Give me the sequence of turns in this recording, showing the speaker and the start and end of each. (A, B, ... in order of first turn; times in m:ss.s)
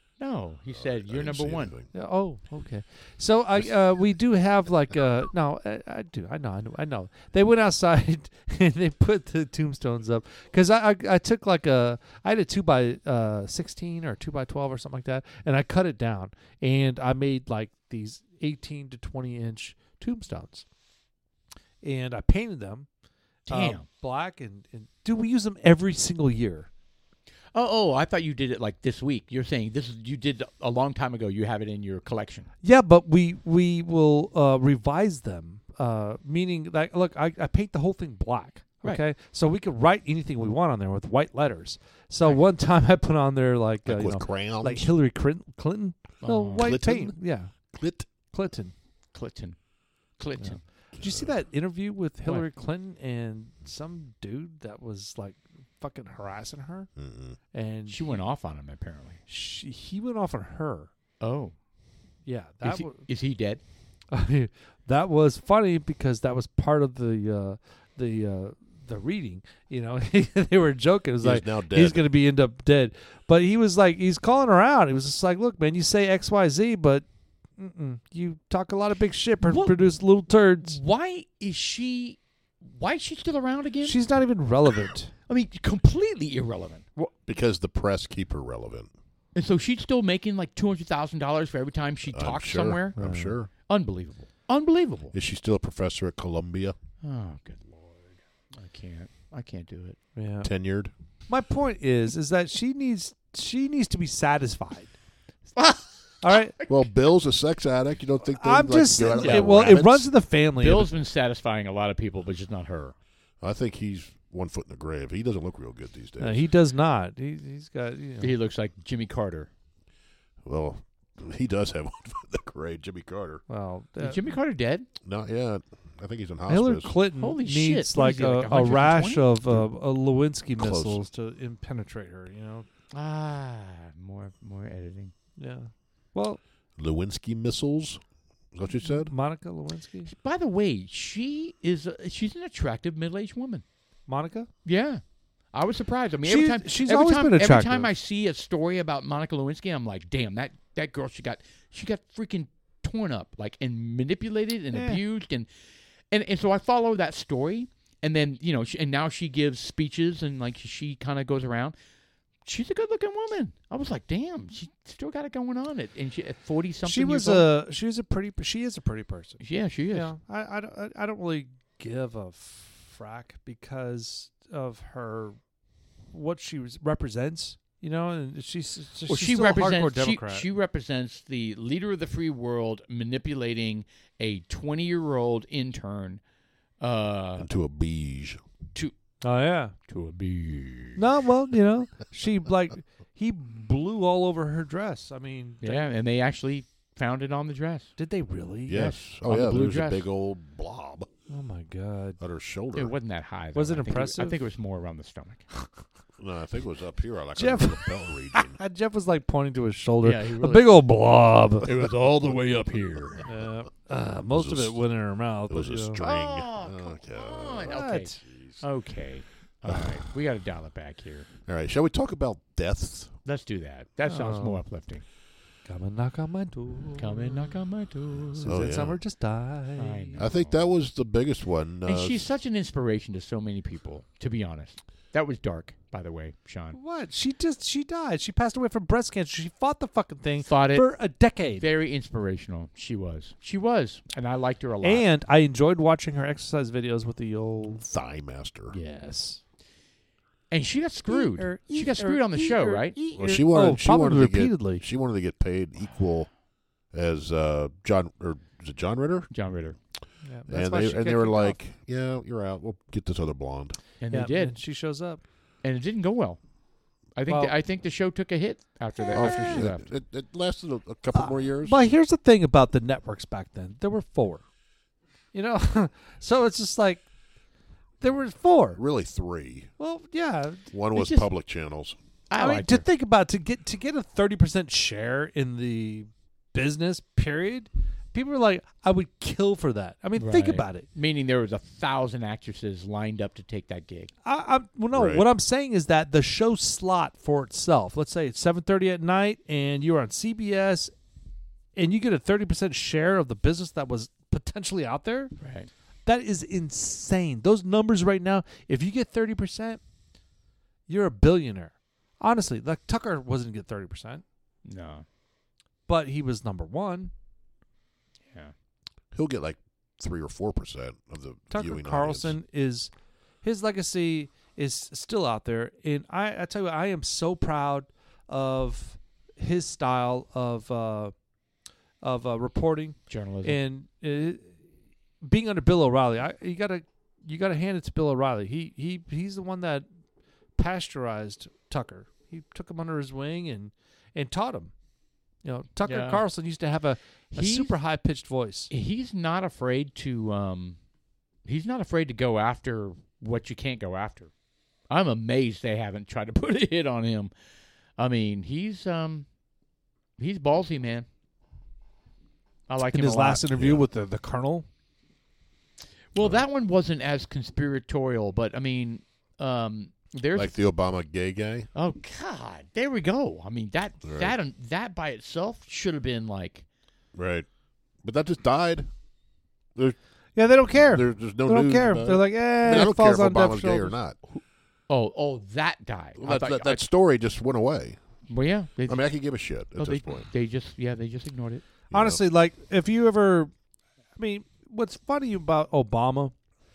0:00.2-0:01.7 A
0:00.7-0:01.9 B
0:01.9-0:20.6 C
0:21.8-0:22.9 C
0:23.5-0:23.8 A
0:23.5-0:26.7 C
0:27.5-0:32.5 A
0:32.6-0:48.7 C
0:43.8-0:44.9 B
0:46.2-0:46.7 A
0:46.6-0:47.2 B
0:47.7-0:48.1 B
0:49.1-0:49.6 A
0:50.2-0:50.6 A
0:50.4-0:56.9 C
0:51.0-0:51.3 B
0:57.0-0:57.4 B
0:57.5-0:58.0 C
0:57.9-0:59.2 A
0:59.3-1:00.9 C
1:01.2-1:01.5 A
1:02.2-1:03.0 C
1:02.6-1:03.6 A
1:04.1-1:17.0 C
1:11.2-1:12.1 B
1:17.6-1:20.8 C
1:19.4-1:19.8 A
1:20.6-1:24.0 A
1:23.8-1:25.1 C
1:25.3-1:27.1 A
1:27.2-1:28.9 B
1:29.3-1:33.0 A
1:32.1-1:33.5 B
1:33.0-1:33.4 C
1:33.7-1:35.1 A
1:35.1-1:36.8 B
1:37.0-1:38.0 A
1:38.5-1:40.0 A
1:40.2-1:40.5 C
1:40.4-1:40.9 B
1:41.3-1:44.9 C
1:45.6-1:46.7 A
1:46.2-1:46.5 C
1:46.7-1:50.1 B
1:48.3-1:50.9 C
1:49.2-1:49.6 A
1:50.6-1:52.9 A
1:53.4-1:56.5 B
1:56.2-1:58.4 C
1:58.2-1:59.5 A
2:00.4-2:03.4 B
2:03.5-2:04.3 C
2:04.0-2:04.9 A
2:05.0-2:07.0 B
2:06.5-2:12.6 C
2:07.2-2:09.4 A
2:10.6-2:11.0 B
2:12.9-2:15.1 A
2:15.4-2:16.4 C
2:16.8-2:18.0 B
2:18.5-2:19.1 B
2:18.8-2:20.1 C
2:20.0-2:23.6 A
2:24.1-2:24.5 C
2:24.6-2:25.0 A
2:25.5-2:35.5 A
2:26.2-2:27.9 C
2:34.7-2:35.0 C
2:36.1-2:41.8 A
2:42.4-2:47.5 A
2:46.8-2:49.4 C
2:49.4-2:50.1 A
2:49.9-2:55.4 C
2:56.1-3:00.5 C
2:59.1-3:06.2 A
3:06.8-3:07.5 A
3:07.4-3:08.4 B
3:09.2-3:09.7 C
3:09.9-3:11.0 A
3:11.0-3:15.8 C
3:15.6-3:17.9 A
3:18.0-3:18.9 C
3:18.7-3:21.1 B
3:18.7-3:20.1 A
3:21.3-3:22.2 C
3:22.2-3:22.9 B
3:22.7-3:25.4 A
3:23.5-3:24.4 C
3:26.2-3:28.6 B
3:27.4-3:31.7 C
3:30.0-3:30.8 A
3:31.6-3:33.2 A
3:31.8-3:33.2 B
3:33.3-3:36.0 C
3:34.3-3:34.8 B
3:35.5-3:38.6 B
3:36.0-3:41.3 A
3:37.7-3:38.2 C
3:39.7-3:40.0 B
3:41.4-3:43.1 B
3:43.2-3:45.0 A
3:44.1-3:44.6 C
3:45.6-3:47.6 C
3:47.0-3:48.6 A
3:48.3-3:50.2 C
3:48.4-3:49.0 B
3:49.8-3:50.6 A
3:50.2-3:52.2 B
3:51.8-3:56.8 A
3:56.7-4:01.6 C
4:00.4-4:00.9 A
4:01.5-4:05.0 A
4:04.8-4:07.8 C
4:07.7-4:08.8 B
4:08.7-4:09.4 C
4:10.5-4:13.0 A
4:11.1-4:14.8 C
4:13.1-4:16.3 B
4:16.9-4:19.3 B
4:19.3-4:19.8 A
4:20.2-4:21.6 C
4:20.5-4:23.8 B
4:24.0-4:24.6 A
4:24.1-4:25.2 C
4:25.6-4:26.4 A
4:27.1-4:29.8 A
4:27.3-4:27.5 C
4:29.1-4:31.8 B
4:31.1-4:34.4 C
4:35.3-4:37.0 C
4:38.0-4:38.8 C
4:38.8-4:39.7 B
4:39.8-4:40.7 C
4:40.7-4:42.0 B
4:40.9-4:41.2 A
4:42.3-4:42.8 A
4:42.4-4:50.9 C
4:50.2-4:54.1 A
4:54.2-5:00.9 C
4:54.9-4:55.3 B
5:01.8-5:05.3 C
5:05.4-5:05.7 A
5:06.0-5:09.8 C
5:10.9-5:14.2 C
5:14.6-5:15.0 A
5:15.9-5:17.1 C
5:19.1-5:22.4 B
5:21.5-5:22.9 C
5:23.4-5:31.1 C
5:32.0-5:34.6 C
5:33.1-5:33.6 A
5:35.2-5:39.8 C
5:40.6-5:44.7 C
5:45.4-5:48.7 C
5:45.8-5:46.2 A
5:47.3-5:47.7 A
5:48.7-5:50.8 A
5:51.4-5:54.3 A
5:54.9-5:57.3 A
5:58.0-5:59.3 A
6:00.2-6:01.0 A
6:02.7-6:03.4 A
6:02.9-6:04.6 C
6:03.5-6:03.8 B
6:06.1-6:10.6 A
6:06.2-6:06.4 B
6:10.3-6:11.7 B
6:11.7-6:16.6 A
6:14.0-6:14.3 B
6:17.1-6:17.5 B
6:18.0-6:18.9 B
6:20.4-6:24.0 C
6:20.7-6:24.2 B
6:24.3-6:26.8 A
6:26.2-6:28.0 B
6:28.3-6:29.0 A
6:28.9-6:30.3 B
6:29.8-6:31.6 A
6:31.9-6:32.2 B
6:31.9-6:33.5 C
6:34.2-6:36.3 C